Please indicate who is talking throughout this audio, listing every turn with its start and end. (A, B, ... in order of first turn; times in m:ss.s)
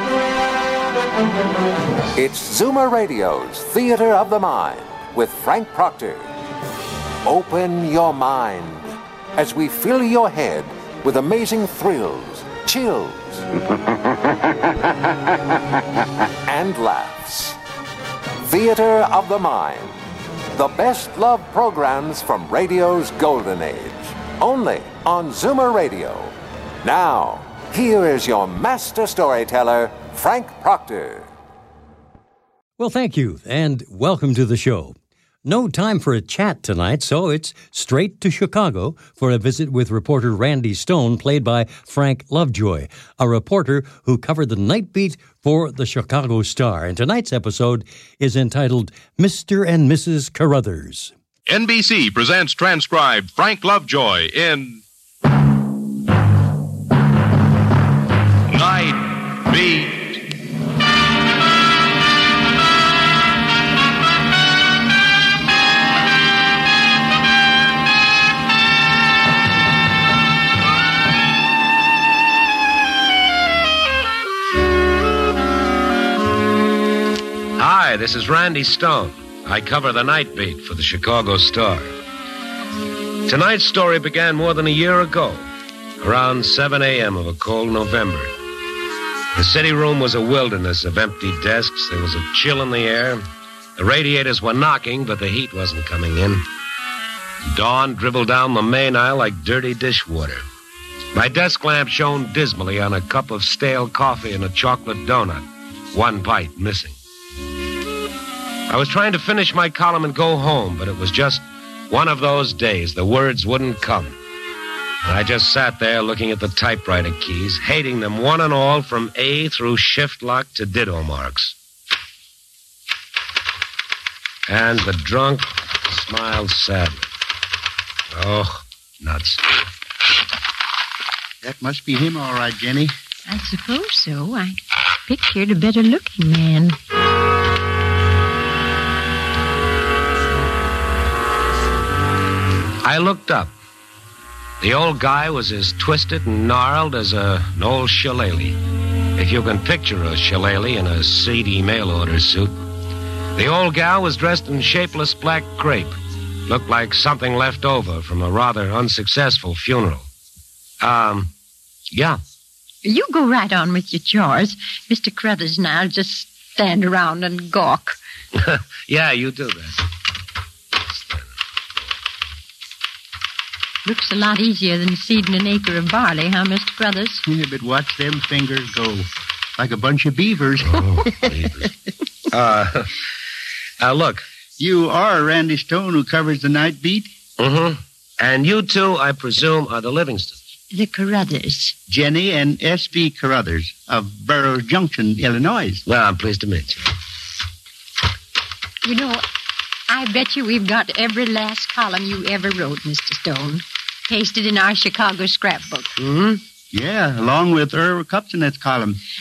0:02.2-0:06.3 A
0:07.2-0:13.5 A
0:16.4-0:17.6 A
0:18.4-0:20.0 A
0:20.5-0:31.3 A
0:32.8-0:51.1 B
0:51.5-0:54.8 C
0:58.5-1:00.2 C
1:17.6-1:21.9 D
1:23.3-1:25.5 D
1:26.0-1:28.3 D
1:29.4-1:33.2 D
1:33.8-1:36.4 D
1:37.4-1:40.4 D
1:41.1-1:47.0 D
1:48.7-1:54.2 D
1:55.0-2:01.6 D
2:04.5-2:07.1 D
2:08.1-2:09.5 D
2:11.4-2:12.9 E
2:13.3-2:16.8 F
2:22.8-2:23.5 D
2:24.6-2:28.6 D
2:29.2-2:32.6 D
2:33.4-2:36.0 D
2:36.5-2:40.1 D
2:40.8-2:41.3 D
2:41.9-2:42.2 D
2:42.8-2:48.0 F
2:48.3-2:49.8 D
2:50.9-2:51.3 D
2:53.8-2:57.2 F
2:57.2-3:01.3 E
3:00.6-3:01.7 D
3:02.3-3:03.0 D
3:03.8-3:04.2 D
3:04.6-3:07.1 E
3:07.4-3:10.4 D
3:10.7-3:11.8 F
3:11.9-3:15.8 E
3:15.9-3:16.8 D
3:18.8-3:19.2 F
3:19.9-3:26.0 F
3:26.0-3:26.4 D
3:26.7-3:29.0 E